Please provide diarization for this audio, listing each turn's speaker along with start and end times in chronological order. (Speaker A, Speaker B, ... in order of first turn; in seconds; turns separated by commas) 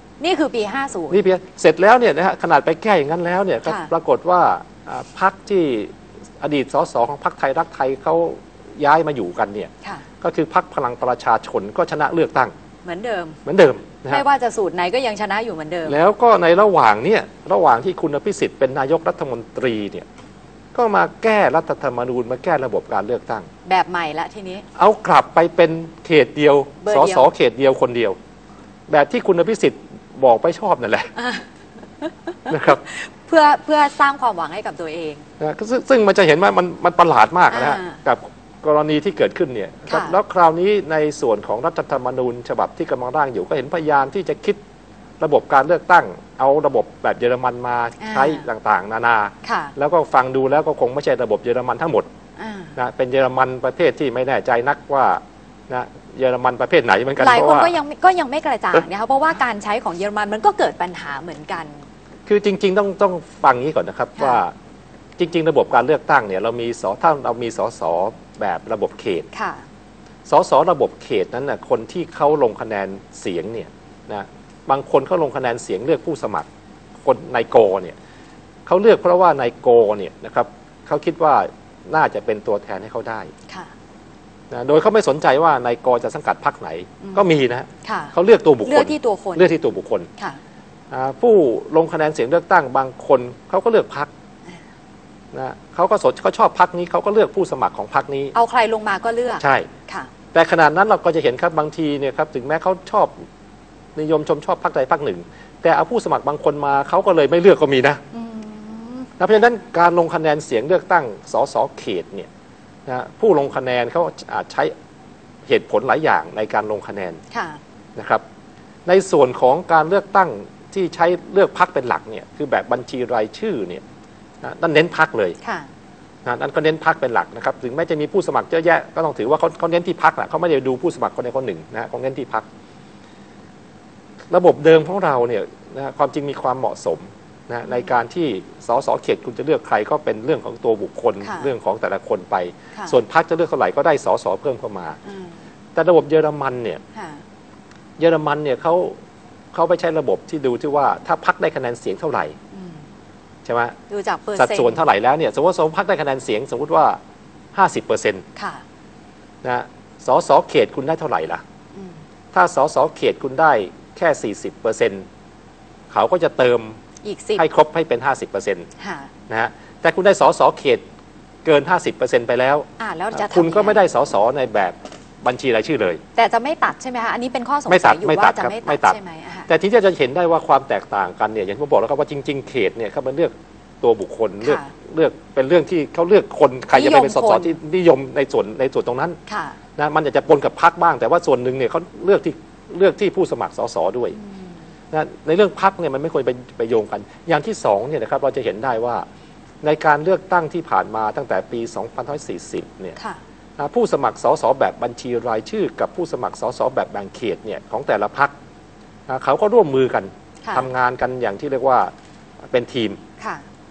Speaker A: 0.2-1.2, Speaker B: 1.1-12.5, Speaker A: 3.7-3.9, Speaker A: 12.8-13.4, Speaker B: 13.4-14.2, Speaker A: 14.1-16.0, Speaker B: 15.9-20.1, Speaker B: 20.8-23.5, Speaker A: 23.6-24.7, Speaker B: 24.8-28.2, Speaker A: 26.8-27.3, Speaker B: 28.9-31.1, Speaker A: 31.2-31.4, Speaker A: 32.0-35.2, Speaker B: 32.5-32.8, Speaker B: 35.4-44.6, Speaker A: 37.5-38.0, Speaker A: 39.9-40.1, Speaker B: 45.2-52.1, Speaker A: 48.0-48.5, Speaker A: 49.4-49.7, Speaker A: 52.4-52.8, Speaker B: 52.8-57.8, Speaker A: 57.2-61.8, Speaker B: 62.3-64.5, Speaker B: 65.2-69.3, Speaker A: 69.3-69.6, Speaker B: 70.3-76.5, Speaker B: 77.0-78.0, Speaker B: 78.7-83.3, Speaker B: 84.5-90.1, Speaker A: 87.8-88.1, Speaker A: 88.7-89.5, Speaker B: 90.9-94.1, Speaker B: 95.3-98.3, Speaker A: 98.3-100.1, Speaker B: 99.4-99.7, Speaker B: 100.3-103.2, Speaker B: 104.0-108.0, Speaker A: 108.1-109.1, Speaker B: 109.2-112.3, Speaker B: 112.9-114.7, Speaker B: 115.5-117.2, Speaker A: 117.3-117.6, Speaker B: 118.0-118.2, Speaker B: 118.9-123.8, Speaker B: 124.4-125.4, Speaker A: 125.4-125.7, Speaker B: 126.2-132.5, Speaker B: 134.3-145.0, Speaker A: 141.2-141.5, Speaker A: 145.1-145.4, Speaker B: 145.8-146.8, Speaker A: 146.9-147.2, Speaker B: 148.0-148.9, Speaker B: 149.5-152.4, Speaker A: 152.5-152.8, Speaker B: 153.4-153.8, Speaker A: 153.9-154.8, Speaker B: 154.4-157.0, Speaker B: 157.5-158.2, Speaker A: 158.4-158.6, Speaker B: 159.4-161.4, Speaker B: 162.3-165.1, Speaker B: 165.9-166.8, Speaker A: 167.0-167.4, Speaker B: 167.4-168.7, Speaker A: 168.8-169.1, Speaker B: 169.3-170.8, Speaker B: 171.4-176.0, Speaker A: 172.8-173.8, Speaker A: 176.2-179.5, Speaker B: 177.7-189.2, Speaker A: 184.4-184.7, Speaker A: 186.7-187.6, Speaker A: 189.3-189.6, Speaker B: 189.8-194.2, Speaker A: 194.2-194.5, Speaker B: 194.9-199.1, Speaker B: 199.6-203.0, Speaker B: 203.6-208.3, Speaker B: 209.1-211.9, Speaker B: 212.5-213.0, Speaker A: 213.2-213.4